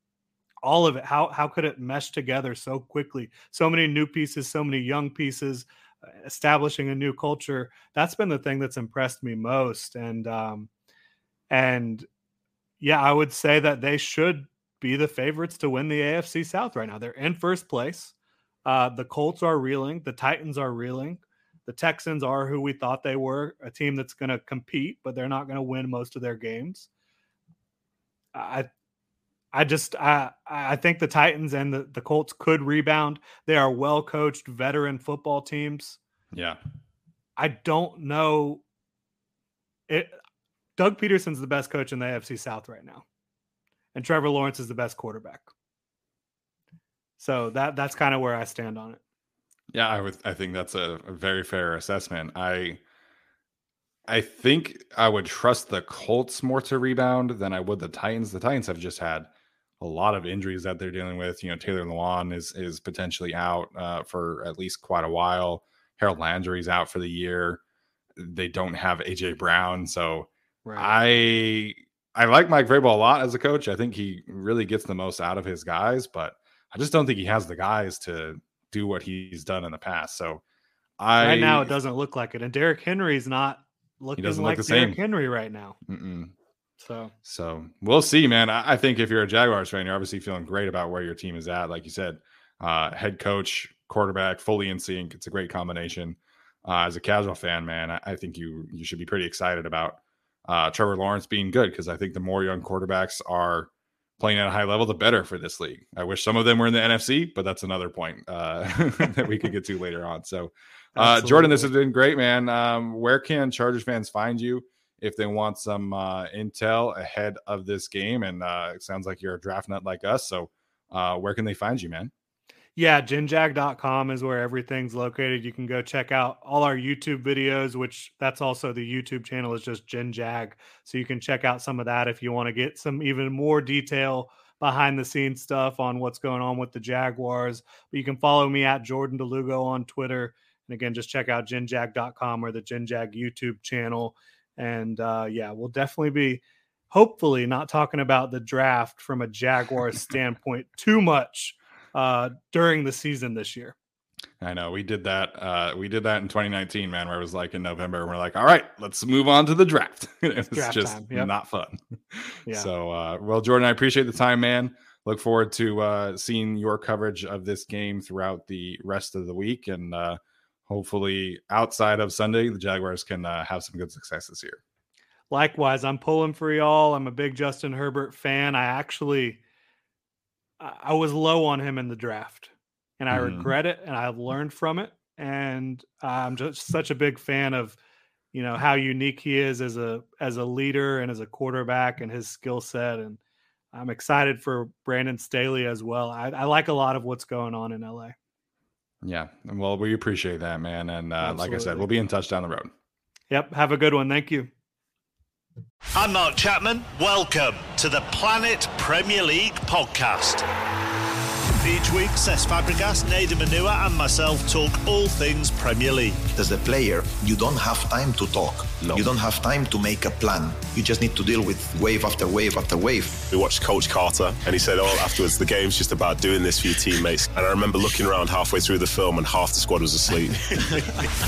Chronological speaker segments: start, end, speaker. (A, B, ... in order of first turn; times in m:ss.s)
0:00.6-0:05.6 A
0:06.2-0:10.7 A
0:11.5-0:12.0 A
0:12.8-0:18.1 A
0:18.6-0:26.9 A
0:28.3-0:28.7 A
0:29.5-0:36.0 A
0:36.3-0:36.6 B
0:37.4-0:38.6 A
0:39.9-0:40.2 A
0:40.8-0:43.0 A
0:43.9-0:45.5 A
0:47.2-0:49.0 A
0:49.7-0:52.8 B
0:54.1-0:59.3 B
0:59.8-1:07.6 B
1:08.2-1:20.4 B
1:10.6-1:10.9 A
1:21.0-1:21.7 B
1:21.2-1:25.8 A
1:24.2-1:25.0 B
1:25.9-1:26.3 B
1:26.8-1:27.1 A
1:27.2-2:02.1 B
1:50.9-1:51.7 A
2:02.8-2:33.7 A
2:34.4-2:54.6 B
2:40.5-2:41.3 A
2:55.3-2:59.4 A
3:00.6-3:07.8 A
3:03.1-3:03.5 B
3:08.3-3:13.2 A
3:13.7-3:18.1 A
3:19.0-3:22.7 B
3:21.2-3:21.8 A
3:23.3-3:24.5 A
3:25.9-3:30.4 C
3:31.6-3:36.3 C
3:36.3-3:43.2 D
3:43.3-3:51.1 E